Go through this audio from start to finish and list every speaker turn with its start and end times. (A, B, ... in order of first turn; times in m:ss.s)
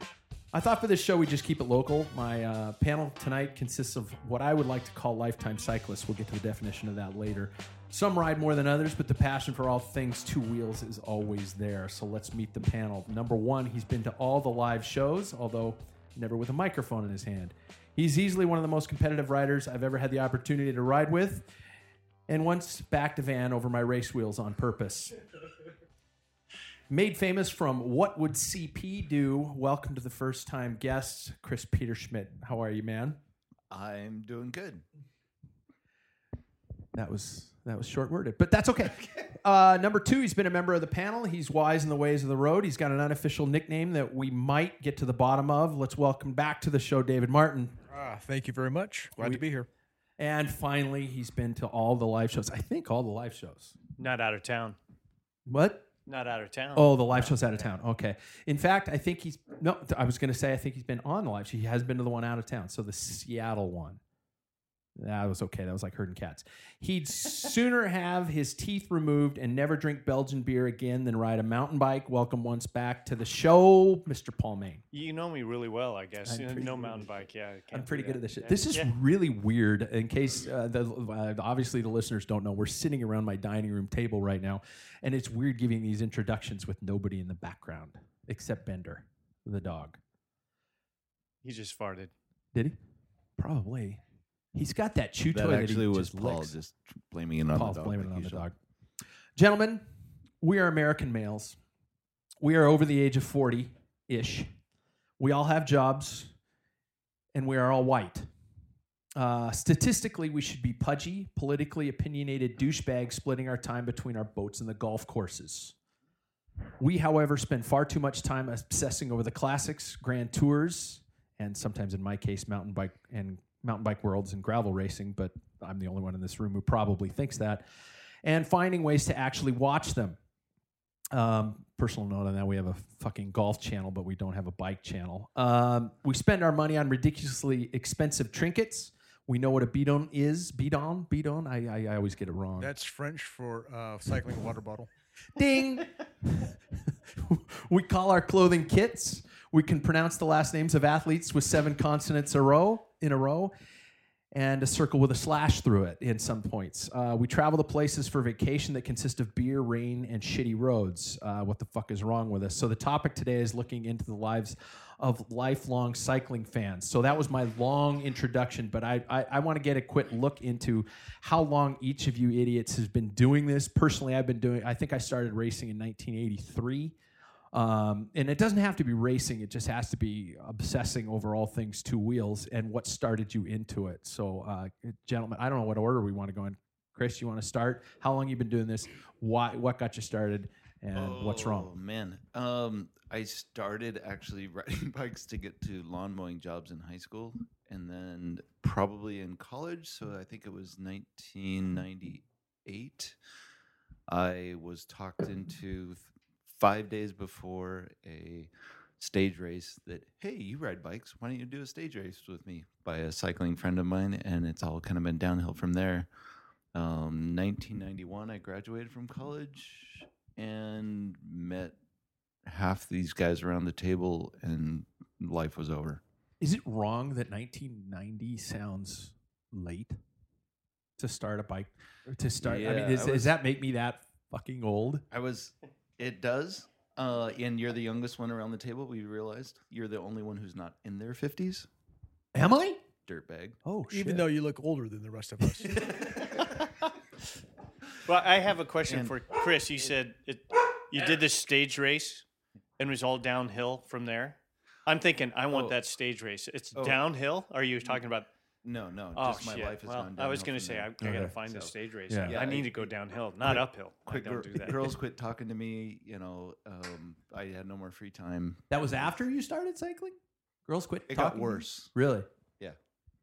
0:00.5-0:21.5 A
0:22.3-0:25.1 A
0:26.9-0:33.2 A
0:33.7-0:34.8 B
0:36.9-0:47.8 A
0:47.9-0:49.7 C
0:49.2-0:49.4 A
0:50.2-0:53.7 A
0:54.0-0:54.8 D
0:55.5-0:55.8 A
0:56.0-0:57.4 D
0:56.7-1:04.0 A
1:05.0-1:14.8 A
1:14.9-1:18.9 D
1:16.2-1:17.1 A
1:17.7-1:30.0 A
1:31.4-1:32.1 D
1:33.4-1:34.0 A
1:34.5-1:36.5 A
1:35.3-1:38.4 B
1:37.5-1:38.5 A
1:39.4-1:39.8 A
1:40.4-1:41.6 A
1:42.4-1:44.5 A
1:45.2-1:46.3 A
1:47.3-1:48.3 A
1:49.2-1:55.7 A
1:56.8-2:07.6 A
2:08.2-2:10.2 A
2:11.1-2:22.7 A
2:22.6-2:24.9 C
2:25.4-2:26.5 A
2:27.2-2:33.5 A
2:34.3-2:56.9 A
2:57.5-3:11.7 A
3:10.9-3:23.2 B
3:24.1-3:36.1 B
3:36.7-3:41.7 B
3:42.4-3:46.0 B
3:46.4-3:50.0 A
3:51.0-3:55.0 A
3:52.4-3:53.4 B
3:55.1-4:01.7 B
4:02.3-4:02.8 A
4:03.0-4:03.6 B
4:03.6-4:04.3 A
4:03.9-4:06.0 C
4:05.6-4:06.2 A
4:08.0-4:12.2 D
4:08.9-4:09.2 B
4:12.8-4:18.3 D
4:16.7-4:17.0 B
4:18.6-4:21.7 B
4:19.1-4:24.8 D
4:21.0-4:21.4 A
4:22.1-4:22.4 A
4:22.2-4:28.8 B
4:28.7-4:30.1 A
4:30.7-4:32.3 A
4:31.1-4:31.9 B